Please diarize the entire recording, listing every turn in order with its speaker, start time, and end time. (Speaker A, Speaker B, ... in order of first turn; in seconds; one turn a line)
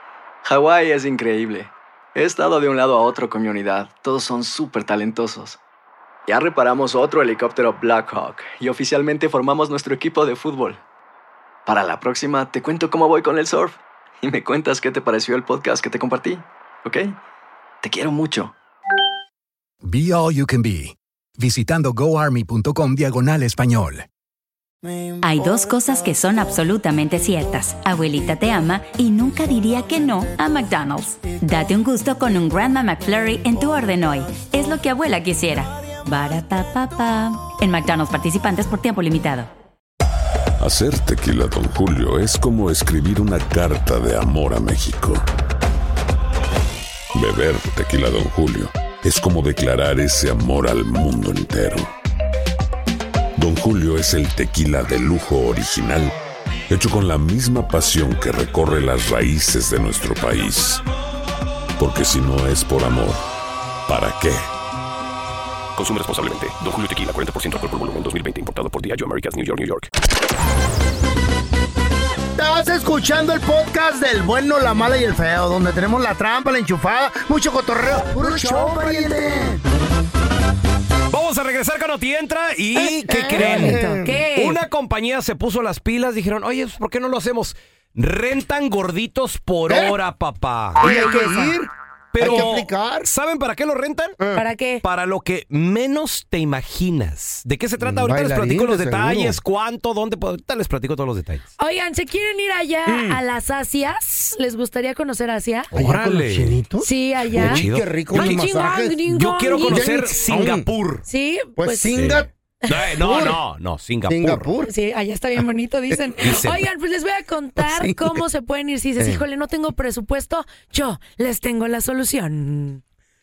Speaker A: 0.4-5.6
Speaker A: 6.3-10.8
Speaker A: 11.7-17.1
Speaker A: 17.8-18.5
Speaker B: 19.8-24.1
Speaker C: 25.2-39.5
Speaker D: 40.6-45.2
Speaker D: 47.1-51.9
Speaker D: 53.4-56.1
Speaker D: 56.7-60.8
Speaker D: 61.8-63.2
Speaker D: 63.9-64.4
Speaker E: 65.8-69.9
Speaker F: 72.3-79.6
Speaker G: 78.2-79.0
Speaker H: 81.1-83.8
Speaker F: 82.7-84.2
Speaker G: 83.3-84.6
Speaker H: 84.3-90.8
Speaker F: 89.7-90.0
Speaker F: 90.8-93.1
Speaker G: 90.8-91.5
Speaker H: 92.1-94.2
Speaker F: 94.2-94.4
Speaker G: 94.3-94.8
Speaker H: 94.8-101.5
Speaker F: 97.8-99.4
Speaker G: 101.6-105.7
Speaker F: 102.8-103.2
Speaker H: 105.7-106.6
Speaker F: 105.7-109.0
Speaker G: 106.8-110.1
Speaker H: 107.3-108.4
Speaker H: 109.1-111.0
Speaker F: 109.6-110.7
Speaker G: 111.1-112.0
Speaker F: 111.5-112.3
Speaker H: 111.9-114.5
Speaker G: 112.7-112.9
Speaker F: 113.0-113.4
Speaker F: 114.1-114.7
Speaker G: 114.7-122.8
Speaker H: 116.2-116.6
Speaker F: 117.6-118.2
Speaker F: 119.0-119.2